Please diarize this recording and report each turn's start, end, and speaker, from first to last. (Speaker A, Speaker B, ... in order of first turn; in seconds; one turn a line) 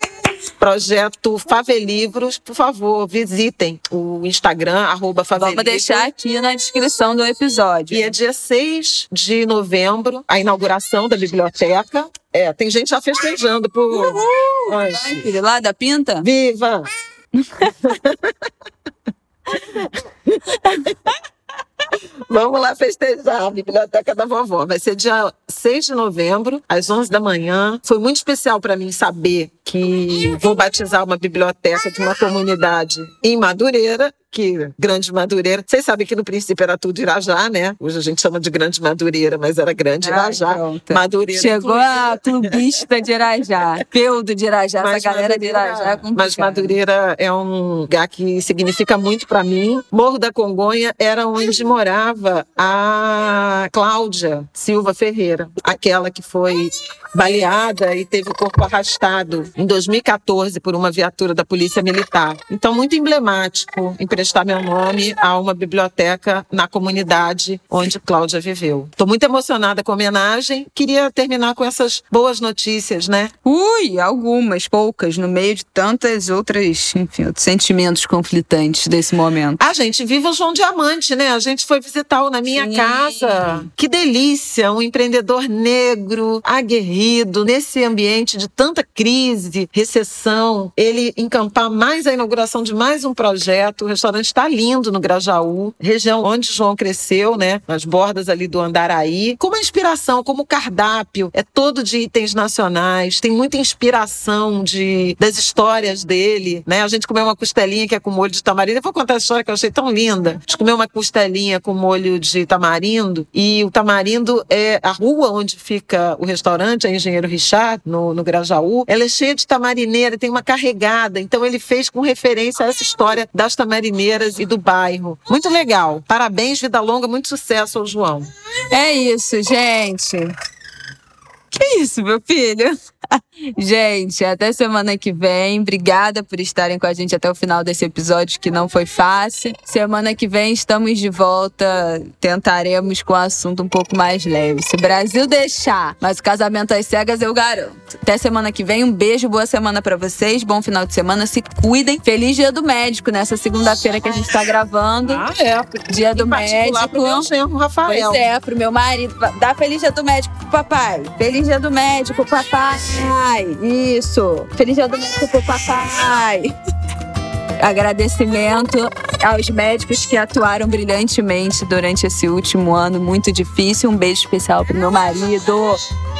Speaker A: 0.6-6.1
Speaker B: 5.3-8.1
Speaker A: 7.9-15.3
Speaker B: 13.9-16.3
Speaker A: 16.2-16.9
Speaker B: 17.3-17.8
Speaker A: 17.6-18.5
Speaker A: 19.5-21.2
Speaker A: 21.8-42.8
Speaker B: 40.0-46.8
Speaker A: 44.8-73.3
Speaker B: 73.4-79.6
Speaker A: 79.6-128.3
Speaker B: 82.5-83.7
Speaker B: 128.7-130.3
Speaker B: 131.5-155.2
Speaker A: 155.1-158.3
Speaker B: 155.9-157.3
Speaker B: 157.8-166.5
Speaker B: 167.6-175.8